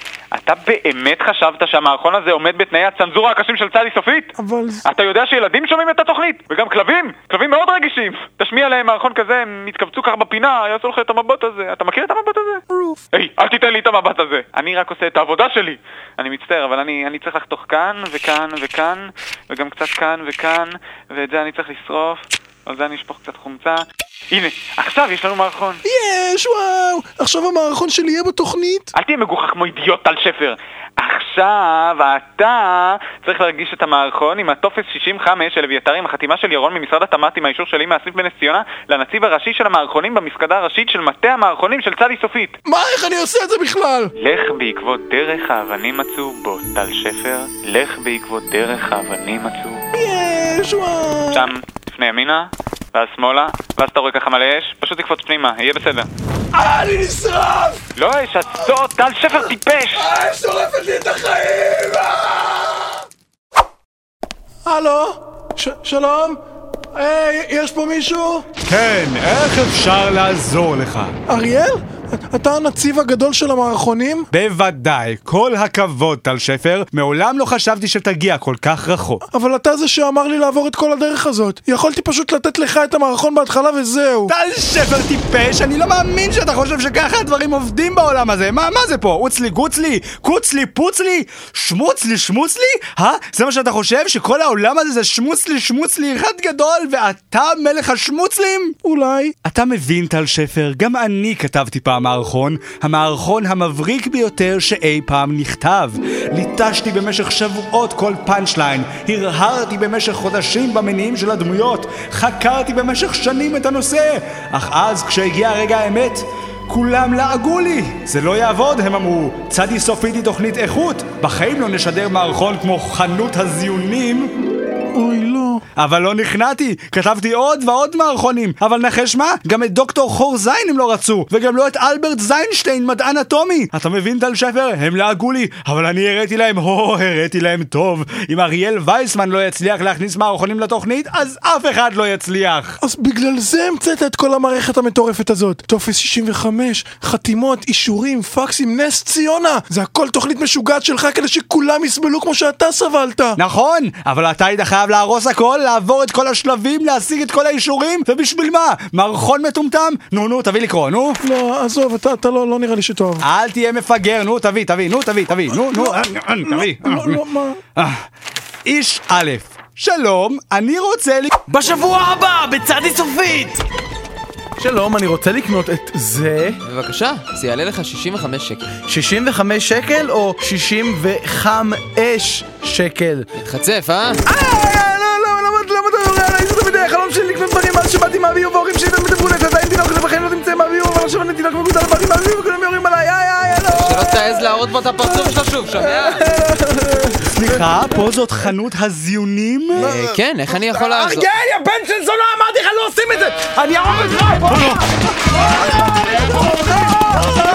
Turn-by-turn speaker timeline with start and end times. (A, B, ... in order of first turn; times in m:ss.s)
0:00.3-0:04.3 A
0:04.4-0:04.8 B
0:04.8-0:12.6 A
0:13.1-0:25.8 A
0:25.8-0:28.9 B
0:28.9-0:42.6 A
0:42.6-0:44.1 B
0:44.2-0:49.8 A
0:49.9-0:51.5 B
0:51.3-0:56.1 A
0:56.6-0:57.7 B
0:58.0-1:00.1 A
1:00.2-1:02.0 B
1:00.2-1:00.8 C
1:04.6-1:06.4 B
1:06.9-1:08.4 B
1:08.6-1:11.1 D
1:11.3-1:14.3 B
1:14.3-1:19.2 D
1:19.3-1:24.3 B
1:24.3-1:38.7 D
1:38.8-1:39.3 B
1:39.4-2:04.3 D
2:04.9-2:05.6 B
2:05.8-2:22.8 D
2:22.8-2:33.4 B
2:33.4-2:41.2 D
2:41.2-2:43.2 B
2:43.2-2:47.2 D
2:45.6-2:47.6 B
2:47.8-2:48.0 D
2:48.6-2:51.3 D
2:51.5-2:53.6 C
2:54.6-2:56.6 C
2:56.6-2:58.7 E
2:58.8-3:03.3 C
3:03.4-3:04.2 E
3:04.2-3:14.4 C
3:13.7-3:16.2 E
3:15.0-3:15.3 C
3:15.8-3:17.2 C
3:17.2-3:20.0 D
3:19.7-3:24.5 C
3:19.8-3:21.3 E
3:23.6-3:24.8 D